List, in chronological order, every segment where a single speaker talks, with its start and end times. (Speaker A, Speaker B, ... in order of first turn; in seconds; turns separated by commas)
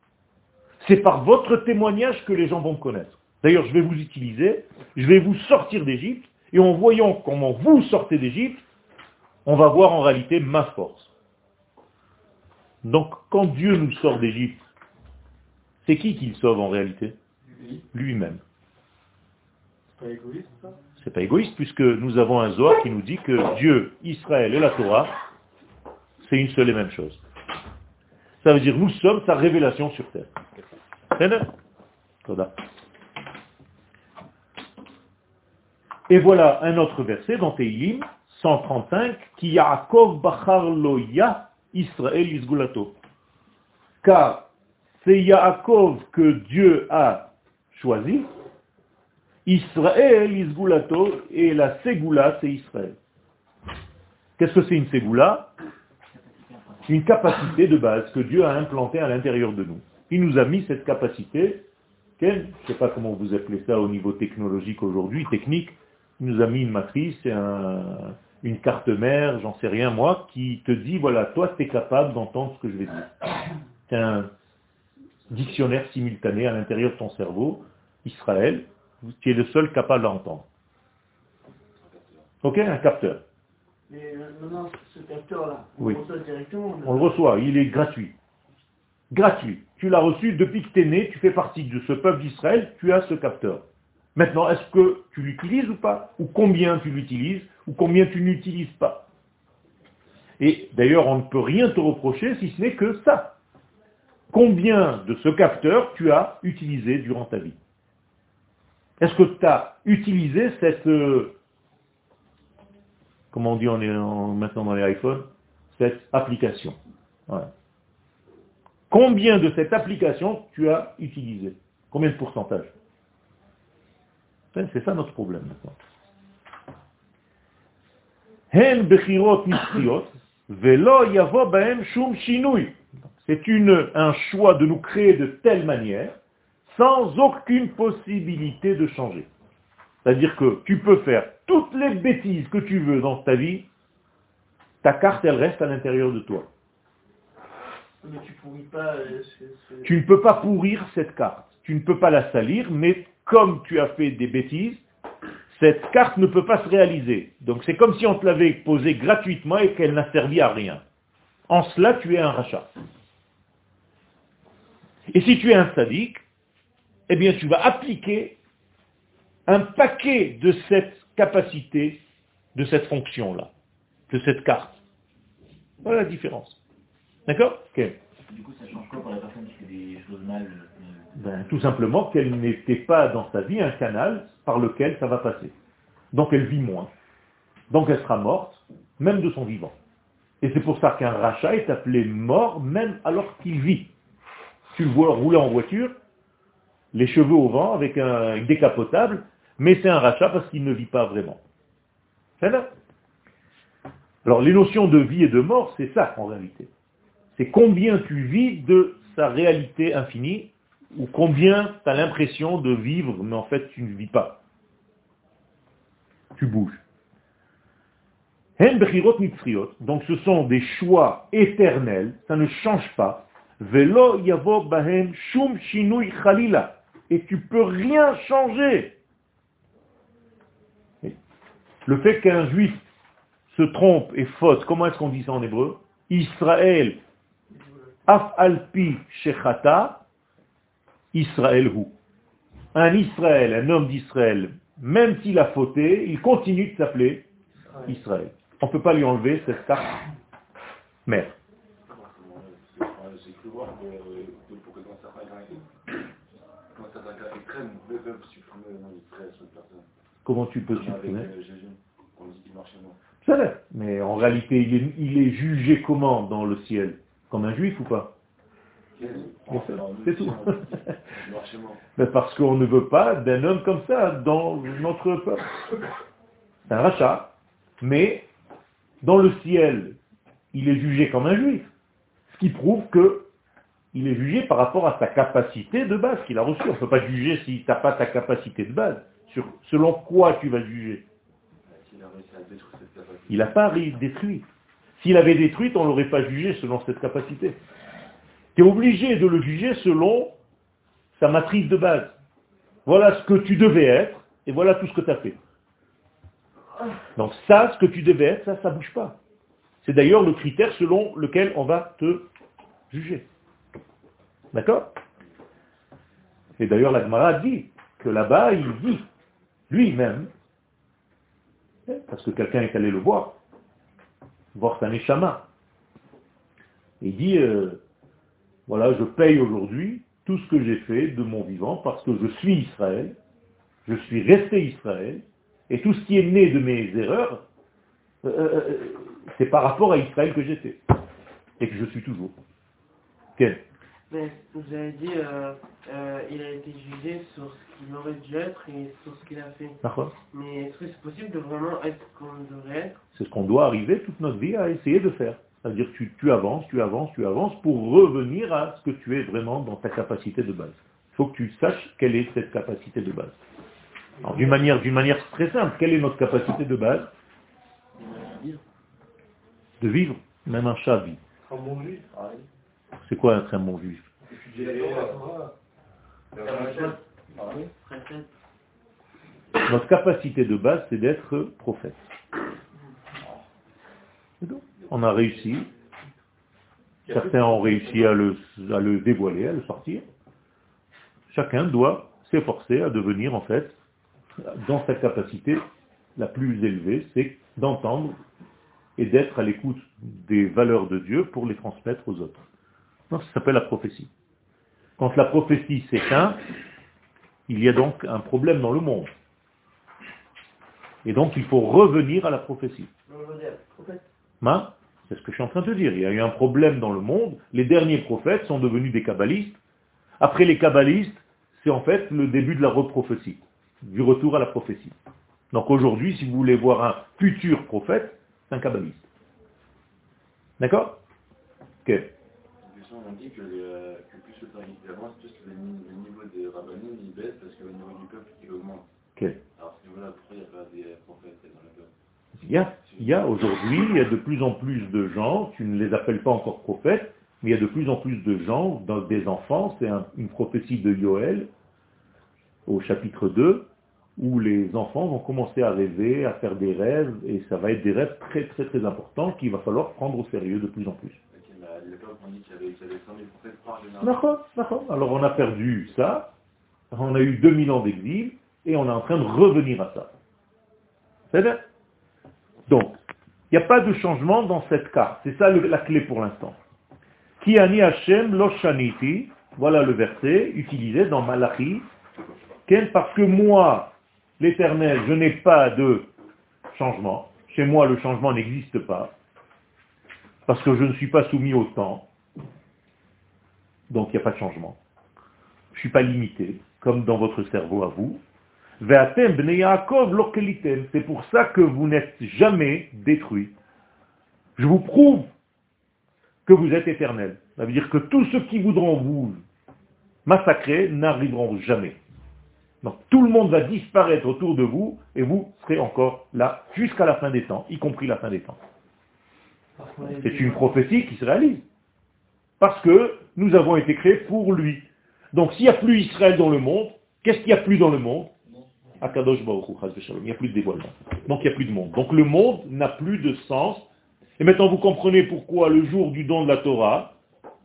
Speaker A: 0.8-8.6, Speaker A: 9.4-11.1, Speaker A: 12.8-14.6, Speaker A: 15.8-17.1, Speaker B: 17.6-17.8, Speaker A: 17.9-18.4, Speaker B: 20.0-20.7, Speaker A: 21.0-25.1, Speaker A: 26.2-27.2, Speaker A: 28.4-30.3, Speaker A: 31.1-31.5, Speaker A: 32.2-32.5, Speaker A: 36.1-43.0, Speaker A: 44.0-44.5, Speaker A: 45.0-48.3, Speaker A: 49.5-53.0, Speaker A: 54.4-55.5, Speaker C: 56.1-56.8, Speaker A: 56.9-61.6, Speaker A: 62.2-73.3, Speaker A: 73.9-74.3, Speaker A: 75.3-80.5, Speaker D: 81.8-82.2, Speaker A: 82.4-83.2, Speaker E: 83.9-87.2, Speaker A: 86.8-88.1, Speaker A: 89.1-93.6, Speaker A: 94.1-99.0, Speaker A: 100.4-103.3, Speaker A: 104.3-107.6, Speaker A: 109.0-111.3, Speaker A: 113.3-116.8, Speaker A: 118.9-122.7, Speaker A: 124.5-125.7, Speaker A: 128.5-136.1, Speaker A: 136.7-139.3, Speaker A: 140.0-143.7, Speaker A: 144.8-146.5, Speaker E: 148.0-149.9, Speaker A: 149.8-154.8, Speaker A: 155.5-160.8, Speaker A: 161.5-162.7, Speaker A: 165.1-166.2, Speaker A: 167.1-168.4, Speaker A: 169.5-172.0, Speaker A: 172.5-173.5, Speaker A: 174.1-174.8, Speaker A: 175.8-176.6, Speaker A: 177.3-178.0, Speaker C: 178.2-181.4, Speaker A: 181.2-185.5, Speaker A: 186.1-186.9, Speaker A: 187.7-189.7, Speaker A: 190.4-193.9, Speaker A: 194.7-195.9, Speaker A: 196.9-201.4, Speaker A: 202.4-202.7, Speaker A: 204.2-206.7, Speaker A: 207.3-214.4, Speaker A: 216.3-216.8, Speaker A: 218.6-228.9, Speaker A: 231.8-232.8, Speaker A: 233.5-237.0, Speaker E: 237.5-237.9, Speaker A: 238.1-240.0, Speaker A: 241.1-241.9, Speaker A: 242.7-247.3, Speaker A: 247.8-250.0, Speaker A: 251.1-251.3, Speaker D: 251.9-255.6, Speaker D: 256.7-259.9, Speaker A: 260.2-261.3, Speaker D: 260.7-263.0, Speaker A: 263.2-268.1, Speaker D: 268.9-271.8, Speaker A: 269.5-270.7, Speaker A: 271.9-275.5, Speaker A: 276.7-278.3, Speaker A: 279.0-280.0, Speaker A: 280.5-281.7, Speaker A: 282.3-283.3, Speaker A: 283.9-291.1, Speaker D: 291.6-293.7, Speaker A: 293.3-294.4, Speaker A: 295.0-297.6, Speaker A: 298.5-300.4, Speaker A: 301.1-302.1, Speaker A: 302.9-305.4, Speaker A: 307.1-309.2, Speaker A: 309.8-312.3, Speaker A: 312.9-313.2, Speaker A: 314.5-315.0, Speaker A: 316.6-319.1, Speaker A: 319.7-320.3, Speaker A: 321.9-323.4, Speaker A: 324.5-325.4, Speaker A: 327.0-327.8, Speaker A: 328.7-333.1, Speaker A: 333.9-337.4, Speaker A: 338.2-340.8, Speaker A: 341.6-342.3, Speaker F: 344.1-349.8, Speaker A: 349.8-350.1, Speaker F: 350.3-353.0, Speaker A: 353.1-363.4, Speaker A: 364.2-367.1, Speaker B: 364.3-364.5, Speaker C: 368.0-368.6, Speaker A: 369.8-371.2, Speaker B: 371.5-372.1, Speaker C: 372.1-372.4, Speaker A: 373.0-374.1, Speaker B: 374.3-375.5, Speaker D: 374.6-375.1, Speaker B: 376.4-376.9, Speaker F: 376.4-376.9, Speaker F: 377.8-378.3, Speaker A: 379.6-382.0, Speaker A: 384.4-385.7, Speaker D: 384.8-385.3, Speaker A: 387.1-390.1, Speaker A: 391.3-393.8, Speaker A: 394.4-395.6, Speaker A: 396.2-398.2, Speaker A: 399.0-402.4, Speaker A: 403.1-404.1, Speaker A: 405.0-406.4, Speaker A: 407.5-409.1, Speaker A: 411.0-412.9, Speaker E: 413.1-414.0, Speaker A: 414.4-419.6, Speaker A: 420.2-424.9, Speaker A: 425.5-429.1, Speaker A: 430.6-431.0, Speaker A: 431.8-432.1, Speaker D: 432.6-438.9, Speaker D: 439.6-441.9, Speaker A: 442.4-451.5, Speaker D: 442.9-443.2, Speaker A: 452.6-461.2, Speaker D: 461.3-464.4, Speaker A: 464.0-466.3, Speaker A: 466.9-470.1, Speaker A: 471.3-471.6, Speaker A: 472.7-473.0, Speaker A: 473.5-476.6, Speaker A: 477.4-481.9, Speaker A: 482.6-486.1, Speaker A: 486.7-489.1, Speaker A: 490.5-492.1, Speaker A: 493.9-494.8, Speaker A: 495.7-498.2, Speaker A: 498.8-503.5, Speaker A: 504.6-505.3, Speaker A: 506.4-509.4, Speaker A: 510.2-512.0, Speaker A: 512.8-518.6, Speaker A: 520.1-521.6, Speaker A: 522.6-528.3, Speaker A: 529.0-533.9, Speaker A: 534.4-537.2